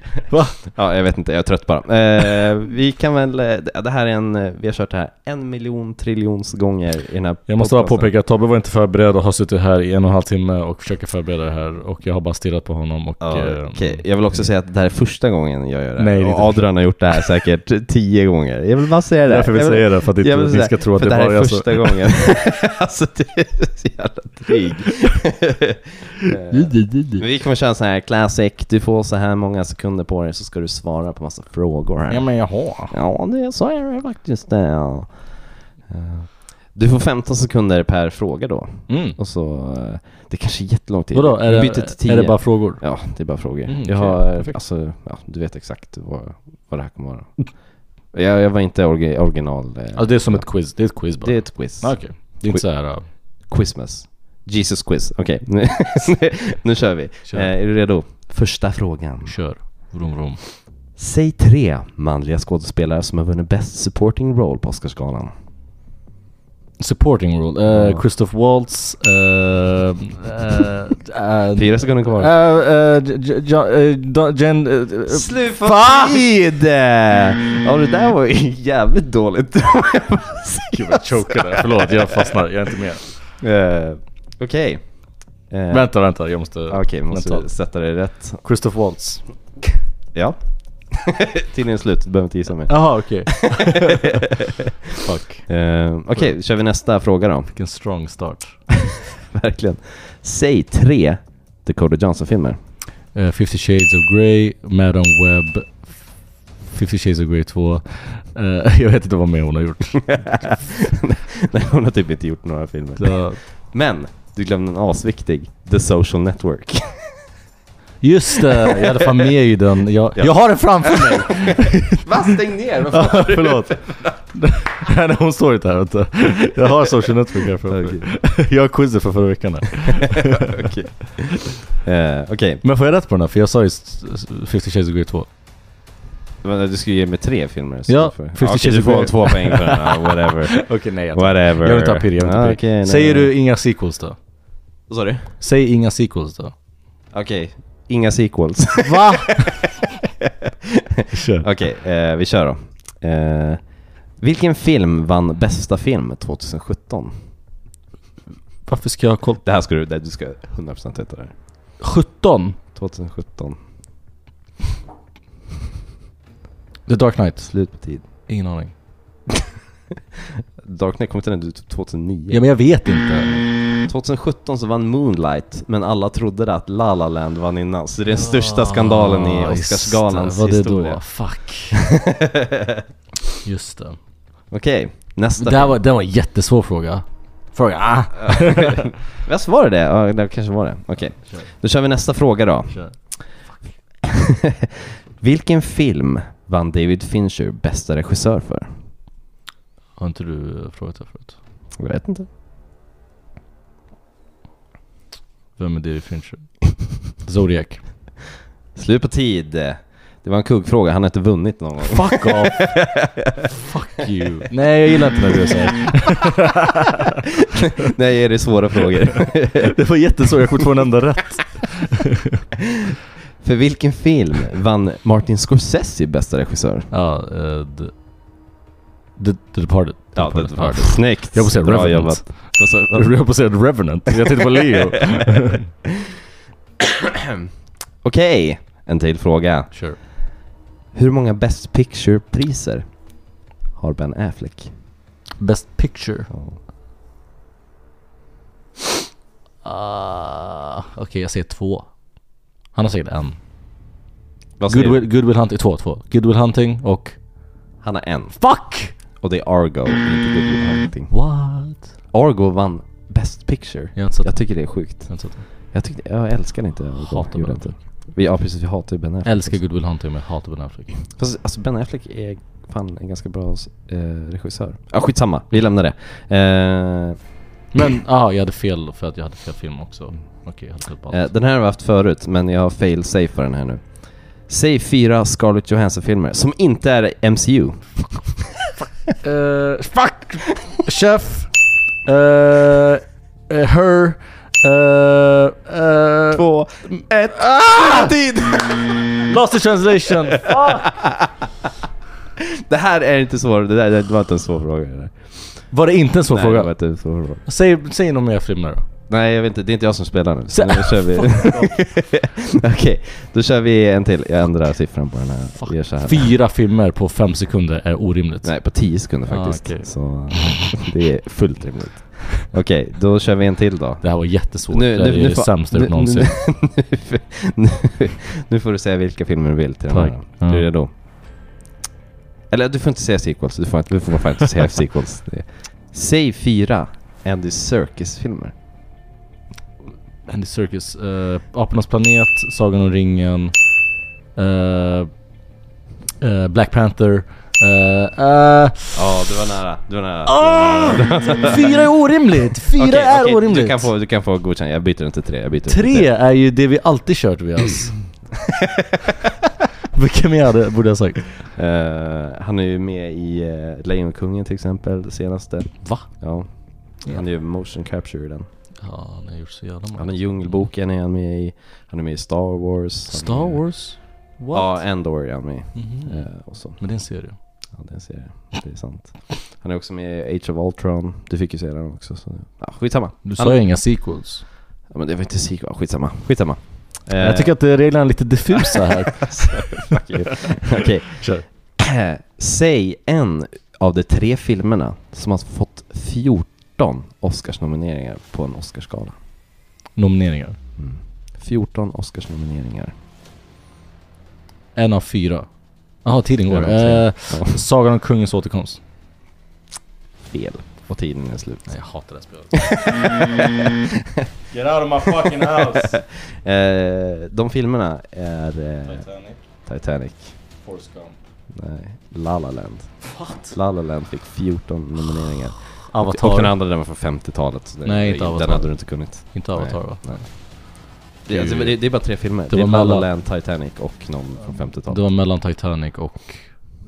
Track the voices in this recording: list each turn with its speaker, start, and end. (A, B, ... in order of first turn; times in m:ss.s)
0:00.3-0:00.7 A
0:00.6-0:08.1 B
0:07.5-0:14.5 A
0:13.2-0:59.9 B
0:16.0-0:17.1 A
0:19.3-0:22.0 A
0:26.5-0:27.2 A
0:32.1-0:32.9 A
0:38.9-0:39.2 A
0:41.1-0:44.6 A
0:49.9-0:53.1 A
0:57.2-0:57.5 A
0:59.2-1:00.5 A
1:00.8-1:05.3 B
1:06.8-1:16.2 A
1:07.7-1:08.0 B
1:11.5-1:12.3 B
1:15.1-1:22.3 B
1:20.7-1:23.2 A
1:23.4-1:26.0 B
1:25.7-1:27.5 A
1:26.7-1:28.4 B
1:28.4-1:29.2 A
1:30.1-1:34.0 B
1:32.7-1:34.2 A
1:35.0-1:35.5 A
1:35.4-1:37.5 B
1:37.5-1:38.7 A
1:39.2-1:42.6 B
1:43.1-1:46.1 A
1:46.6-1:50.6 A
1:50.1-1:57.2 B
1:53.0-1:53.4 A
1:58.0-2:02.0 A
1:58.8-1:59.2 B
2:00.2-2:04.2 B
2:02.9-2:10.3 A
2:07.6-2:08.2 B
2:10.2-2:12.6 B
2:12.6-2:15.3 A
2:16.4-2:23.3 B
2:17.9-2:24.2 A
2:24.9-2:25.3 B
2:25.4-2:26.5 A
2:27.1-2:29.6 B
2:28.8-2:29.6 A
2:31.0-2:37.3 B
2:31.1-2:31.5 A
2:38.6-2:39.4 A
2:39.4-2:41.4 B
2:41.8-2:42.6 A
2:42.7-2:43.6 B
2:46.8-2:48.7 A
2:47.4-2:48.1 B
2:50.6-2:52.4 B
2:52.3-2:53.5 A
2:53.8-3:01.1 B
2:58.1-3:01.8 A
3:01.7-3:02.8 B
3:03.4-3:04.0 A
3:04.5-3:05.8 B
3:05.4-3:08.8 A
3:08.2-3:13.4 B
3:11.2-3:11.5 A
3:12.7-3:13.0 A
3:14.1-3:14.5 B
3:15.2-3:18.8 B
3:20.0-3:21.4 A
3:21.8-3:22.3 B
3:25.6-3:28.1 A
3:28.7-3:33.4 B
3:31.8-3:37.0 A
3:37.8-3:39.7 B
3:39.6-3:42.4 A
3:43.4-3:46.9 B
3:46.9-3:47.9 A
3:49.2-3:55.7 A
3:50.1-3:53.3 B
3:58.0-4:00.2 B
3:59.7-4:00.0 A
4:00.9-4:03.1 B
4:03.7-4:04.7 B
4:05.4-4:06.3 A
4:06.3-4:06.6 B
4:09.6-4:11.9 A
4:12.7-4:13.4 A
4:14.6-4:15.0 B
4:14.7-4:17.2 A
4:17.8-4:18.5 B
4:18.4-4:18.9 A
4:19.2-4:21.2 B
4:21.1-4:21.9 A
4:22.1-4:29.6 B
4:24.0-4:25.4 A
4:27.0-4:27.8 A
4:29.2-4:30.9 A
4:31.1-4:37.2 B
4:37.7-4:41.3 A
4:41.1-4:48.4 B
4:49.2-4:51.5 A
4:52.0-4:56.4 A
4:56.3-4:59.2 B
4:57.4-4:58.1 A
4:59.2-5:00.9 A
5:00.3-5:01.3 B
5:02.7-5:05.6 B
5:05.7-5:06.7 A
5:06.3-5:07.4 B
5:07.4-5:08.8 A
5:09.1-5:16.4 B
5:10.5-5:11.8 A
5:15.5-5:18.6 A
5:18.4-5:30.9 B
5:19.2-5:20.3 A
5:24.0-5:26.4 A
5:29.9-5:30.7 A
5:32.5-5:38.5 B
5:40.3-5:43.7 A
5:44.3-5:45.1 A
5:46.2-5:49.1 A
5:48.9-5:51.8 B
5:50.2-5:53.9 A
5:52.8-5:56.1 B
5:55.7-5:58.2 A
5:59.9-6:01.4 A
6:01.5-6:08.5 B
6:05.8-6:07.2 A
6:08.8-6:10.6 A
6:10.0-6:16.8 B
6:13.1-6:14.9 A
6:15.7-6:17.4 A
6:17.7-6:23.6 B
6:23.2-6:24.4 A
6:24.9-6:27.6 B
6:27.2-6:29.9 A
6:29.2-6:31.2 B
6:30.8-6:31.4 A
6:31.8-6:39.2 B
6:39.9-6:40.6 A
6:40.8-6:42.9 B
6:44.7-6:48.8 A
6:46.5-6:47.6 B
6:50.3-6:51.9 B
6:51.7-6:53.3 A
6:52.5-6:53.7 B
6:54.5-6:56.0 A
6:55.2-7:00.4 B
6:58.9-6:59.4 A
7:00.6-7:01.2 A
7:01.5-7:15.0 B
7:03.1-7:03.5 A
7:05.6-7:06.5 A
7:07.8-7:10.4 A
7:11.3-7:13.1 A
7:14.9-7:16.7 A